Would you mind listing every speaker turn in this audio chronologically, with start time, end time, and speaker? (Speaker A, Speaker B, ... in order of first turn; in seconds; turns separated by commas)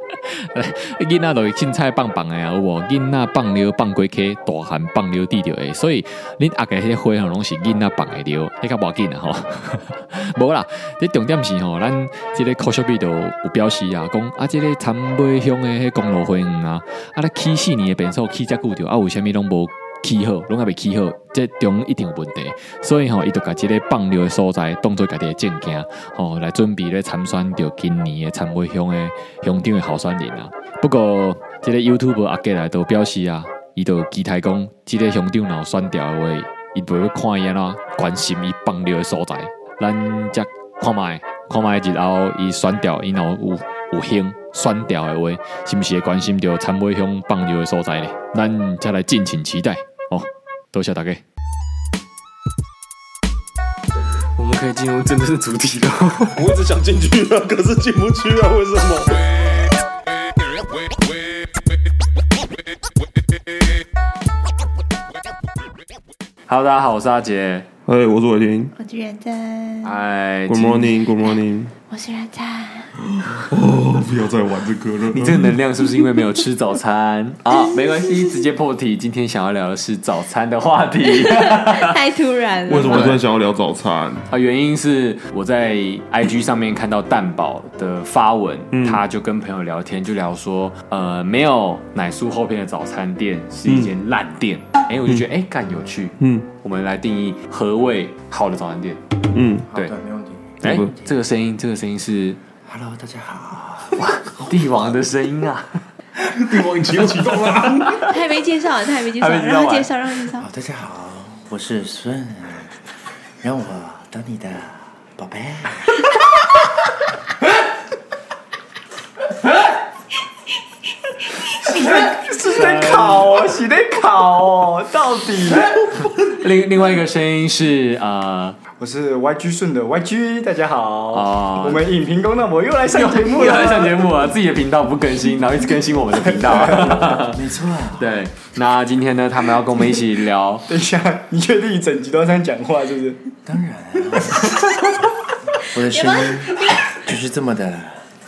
Speaker A: 0.3-51.2, Speaker A: 54.4-56.4, Speaker B: 56.4-59.2, Speaker A: 66.5-67.7, Speaker B: 67.9-68.7, Speaker C: 68.8-69.9, Speaker A: 69.8-70.9, Speaker B: 70.5-71.7, Speaker C: 71.9-72.9, Speaker B: 73.3-75.5, Speaker A: 75.1-82.0, Speaker C: 77.5-78.3, Speaker C: 81.1-83.2, Speaker B: 82.7-84.3, Speaker A: 82.7-83.2, Speaker A: 84.3-99.0, Speaker B: 88.7-89.0, Speaker B: 93.7-93.9, Speaker B: 96.2-96.5, Speaker B: 99.3-99.7, Speaker D: 99.7-101.1, Speaker A: 100.6-102.4, Speaker B: 100.6-100.9, Speaker D: 102.7-104.0, Speaker A: 104.0-105.8, Speaker B: 106.2-108.0, Speaker A: 107.2-108.1, Speaker C: 108.0-110.5, Speaker A: 109.2-109.9, Speaker D: 110.4-112.7, Speaker D: 113.4-115.9, Speaker E: 121.6-125.7, Speaker A: 122.4-123.2, Speaker A: 125.9-128.6, Speaker E: 128.8-134.0, Speaker A: 131.1-131.8, Speaker A: 132.9-140.7, Speaker D: 137.2-138.1, Speaker E: 140.7-143.2, Speaker D: 143.5-144.7, Speaker D: 145.7-148.0, Speaker C: 145.9-146.9